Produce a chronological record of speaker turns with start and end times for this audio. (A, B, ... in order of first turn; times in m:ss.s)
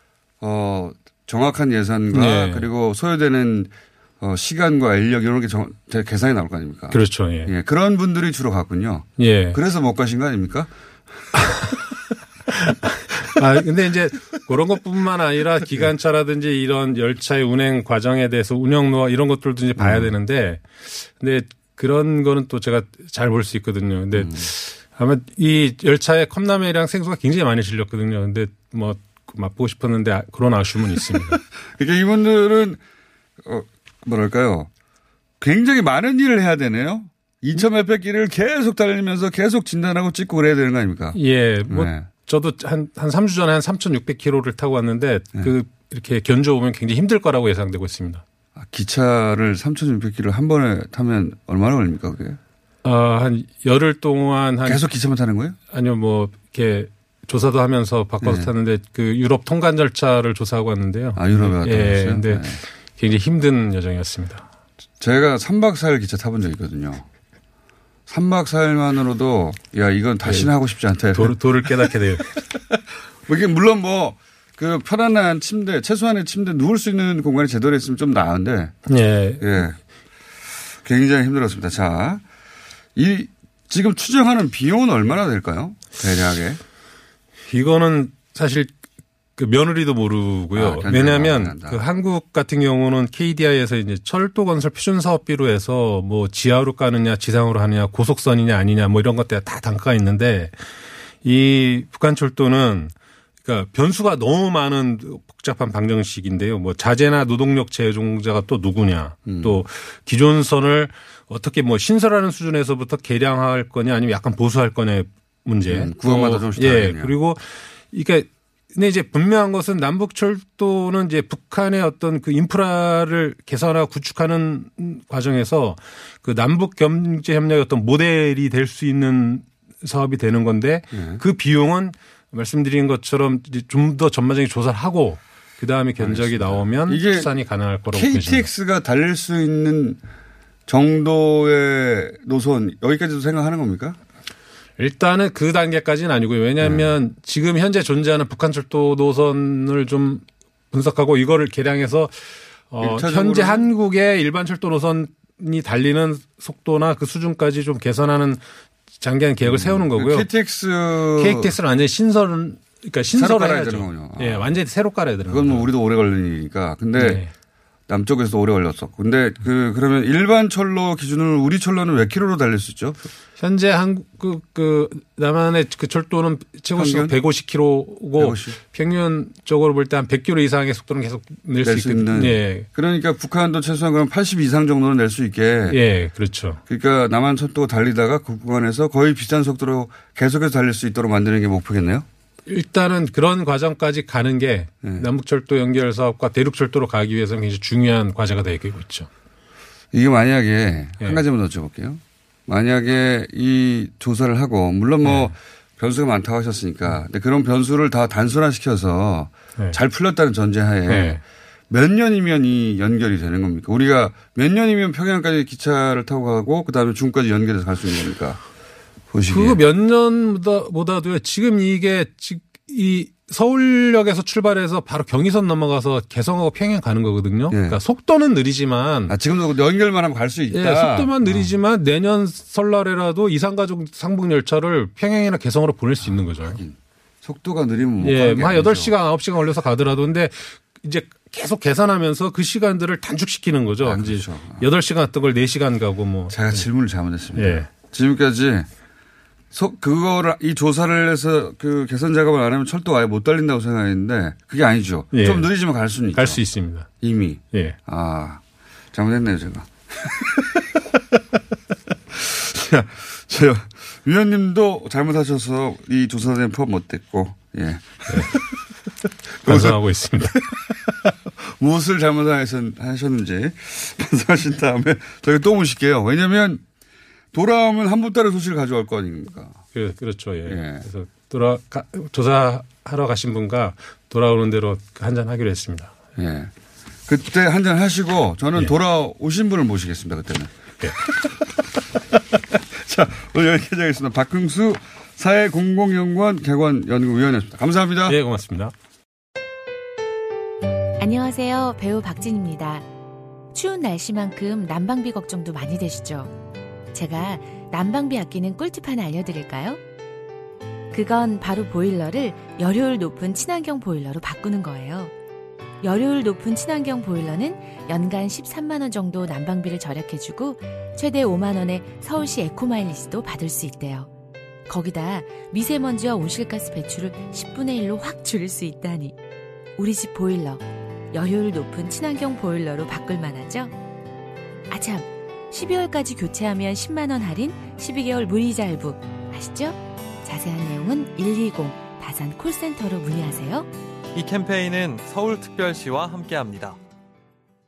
0:00.4-0:10.7 A
0:02.1-0:02.6 B
0:06.9-0:07.5 B
0:09.2-0:09.6 B
0:11.5-0:11.8 B
0:12.5-0:31.4 B
0:19.8-0:20.1 A
0:24.1-0:24.5 A
0:31.8-0:32.8 A
0:33.4-0:34.7 A
0:35.4-0:42.1 A
0:41.2-0:48.2 B
0:48.6-0:52.4 A
0:52.8-0:54.8 B
0:54.6-0:55.6 A
0:55.7-1:04.4 B
0:58.2-0:58.5 A
1:01.2-1:02.6 A
1:05.0-1:07.0 A
1:08.1-1:11.9 A
1:11.2-1:12.4 B
1:13.2-1:18.8 A
1:18.9-1:19.5 B
1:19.4-1:19.8 A
1:20.8-1:22.2 A
1:22.9-1:26.6 A
1:27.4-1:28.7 B
1:29.4-1:40.6 B
1:30.5-1:31.8 A
1:41.2-2:18.4 B
1:49.2-1:49.6 A
1:55.7-1:57.1 A
2:10.9-2:11.2 A
2:16.0-2:17.3 A
2:17.9-2:20.0 A
2:20.7-2:24.0 A
2:24.8-2:32.2 B
2:26.6-2:26.9 A
2:32.7-2:38.4 B
2:32.8-2:33.7 A
2:39.0-2:40.2 B
2:39.4-2:41.6 A
2:41.2-2:45.6 B
2:43.1-2:44.5 A
2:45.3-2:47.2 A
2:47.0-2:47.3 B
2:47.9-2:53.1 A
2:53.4-3:02.6 B
2:56.7-2:57.2 A
2:58.2-2:58.6 A
3:01.6-3:05.8 A
3:05.7-3:06.6 B
3:06.7-3:12.0 A
3:12.5-3:19.1 B
3:14.8-3:15.1 A
3:19.9-3:31.2 A
3:25.0-3:25.3 B
3:30.9-3:31.2 B
3:31.7-3:38.4 A
3:39.1-3:39.6 A
3:39.3-3:49.1 B
3:47.5-3:47.8 A
3:49.1-3:51.5 A
3:50.5-3:56.6 B
3:56.0-3:58.9 A
3:58.0-4:06.6 B
4:03.8-4:04.7 A
4:06.3-4:08.7 A
4:07.4-4:07.7 B
4:09.5-4:16.4 A
4:15.1-4:15.5 B
4:16.1-4:16.9 B
4:17.0-4:18.4 A
4:18.9-4:20.4 A
4:22.1-4:28.4 A
4:29.4-4:36.6 A
4:29.4-4:30.4 B
4:37.3-4:39.6 A
4:39.7-4:45.9 B
4:40.4-4:40.8 A
4:46.2-4:46.5 A
4:47.1-4:50.5 A
4:52.7-4:58.2 A
4:58.1-4:58.7 B
5:01.0-5:02.8 C
5:03.5-5:06.3 C
5:06.9-5:09.8 C
5:10.9-5:15.1 C
5:15.8-5:24.1 C
5:24.7-5:29.2 C
5:29.8-5:33.7 C
5:34.7-5:43.7 C